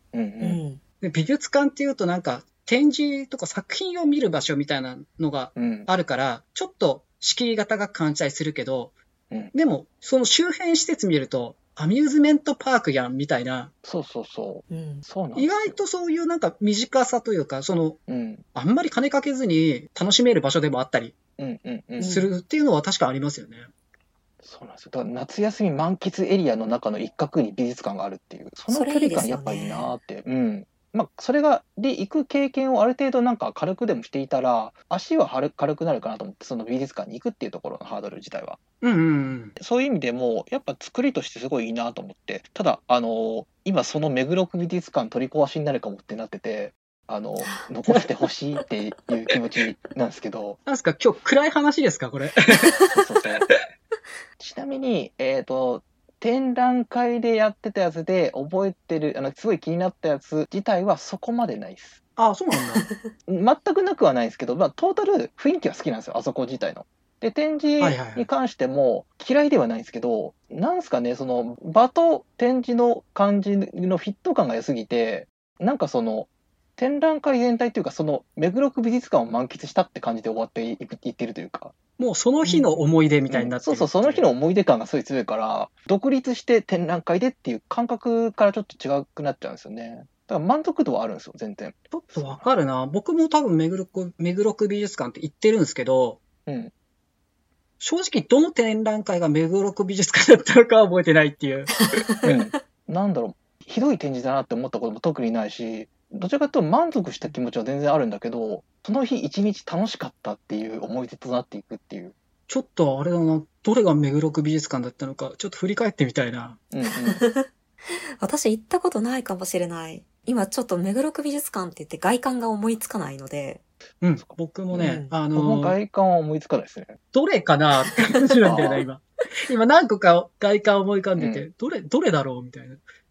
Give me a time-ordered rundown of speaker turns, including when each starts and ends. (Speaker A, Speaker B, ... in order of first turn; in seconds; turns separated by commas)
Speaker A: 0.1-0.6, Speaker B: 0.4-0.8, Speaker C: 1.0-8.9, Speaker A: 5.5-5.9, Speaker C: 9.5-13.7, Speaker A: 13.8-15.8, Speaker B: 14.7-15.0, Speaker C: 15.3-18.0, Speaker A: 18.1-18.4, Speaker C: 18.5-21.1, Speaker A: 21.4-22.2, Speaker B: 22.0-22.3, Speaker C: 22.0-23.7, Speaker A: 24.4-38.6, Speaker B: 28.7-29.9, Speaker C: 38.8-39.5, Speaker A: 39.6-50.6, Speaker B: 47.4-47.7, Speaker C: 50.6-52.8, Speaker B: 52.5-52.9, Speaker A: 52.9-53.5, Speaker A: 54.4-62.0, Speaker C: 62.2-62.9, Speaker B: 62.5-63.0, Speaker A: 63.3-81.7, Speaker C: 67.8-68.3, Speaker C: 82.0-84.3, Speaker A: 83.3-92.5, Speaker C: 91.9-96.2, Speaker A: 96.5-96.7, Speaker C: 97.8-102.0, Speaker B: 101.8-102.3, Speaker A: 102.2-112.1, Speaker C: 112.5-116.6, Speaker A: 116.7-117.2, Speaker B: 116.8-123.6, Speaker C: 124.0-125.8, Speaker A: 124.2-127.0, Speaker B: 124.8-125.1, Speaker C: 127.1-132.8, Speaker B: 127.8-128.7, Speaker A: 128.4-128.8, Speaker A: 131.2-131.4